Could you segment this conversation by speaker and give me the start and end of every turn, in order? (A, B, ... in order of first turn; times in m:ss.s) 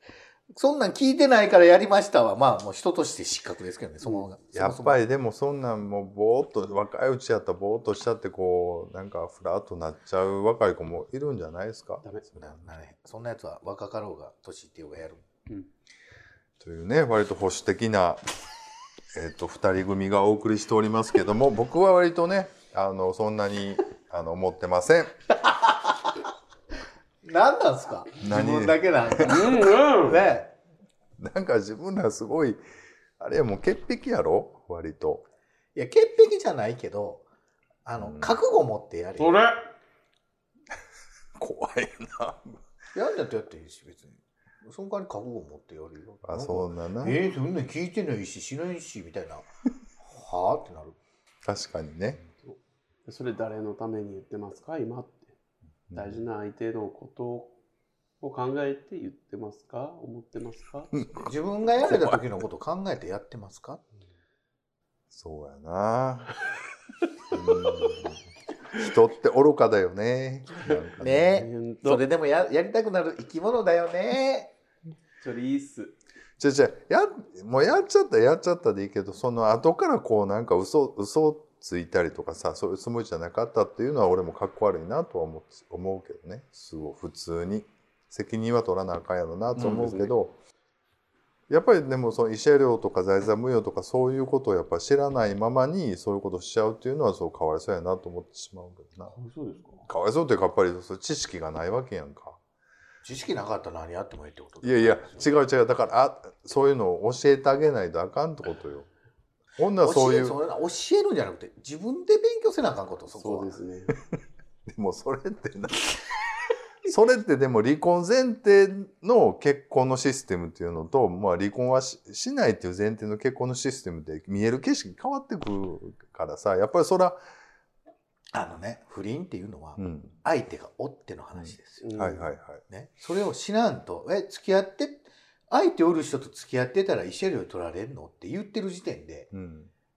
0:00.5-0:05.0 A
0:04.5-0:12.6 B
0:12.4-0:15.2 A
0:16.6-0:18.2 B
0:19.1-0:25.1 B
0:25.4-0:26.0 A
0:27.2-0:30.5 A
0:28.2-0:29.3 B
0:29.2-0:30.2 C
0:31.2-0:32.6 B
0:33.2-0:35.2 B
0:35.7-0:37.2 A
0:37.8-0:39.4 A
0:38.0-0:38.4 B
0:39.2-0:39.7 C
0:41.4-0:42.6 B
0:42.9-0:49.4 A
0:46.2-0:47.2 B
0:50.0-0:51.0 A
0:51.4-0:52.2 B
0:52.4-0:55.3 C
0:55.9-0:56.2 B
0:55.9-0:57.5 C
0:58.2-1:00.9 C
1:00.9-1:01.3 B
1:01.2-1:03.8 A
1:01.8-1:02.2 B
1:05.1-1:06.4 B
1:07.3-1:08.2 B
1:08.7-1:11.4 B
1:11.0-1:14.5 A
1:11.3-1:12.0 C
1:15.2-1:15.9 C
1:16.4-1:30.3 B
1:29.6-1:30.1 C
1:31.5-1:39.1 B
1:39.1-1:39.8 C
1:39.8-1:42.4 B
1:43.0-1:45.2 A
1:44.6-1:48.9 B
1:49.6-1:50.4 B
1:49.8-1:53.6 A
1:53.1-1:53.9 C
1:54.7-1:56.2 B
1:56.8-2:07.2 B
2:08.3-2:11.9 A
2:09.8-2:10.2 B
2:11.3-2:12.6 B
2:11.8-2:12.2 C
2:12.7-2:19.3 A
2:19.3-2:19.7 B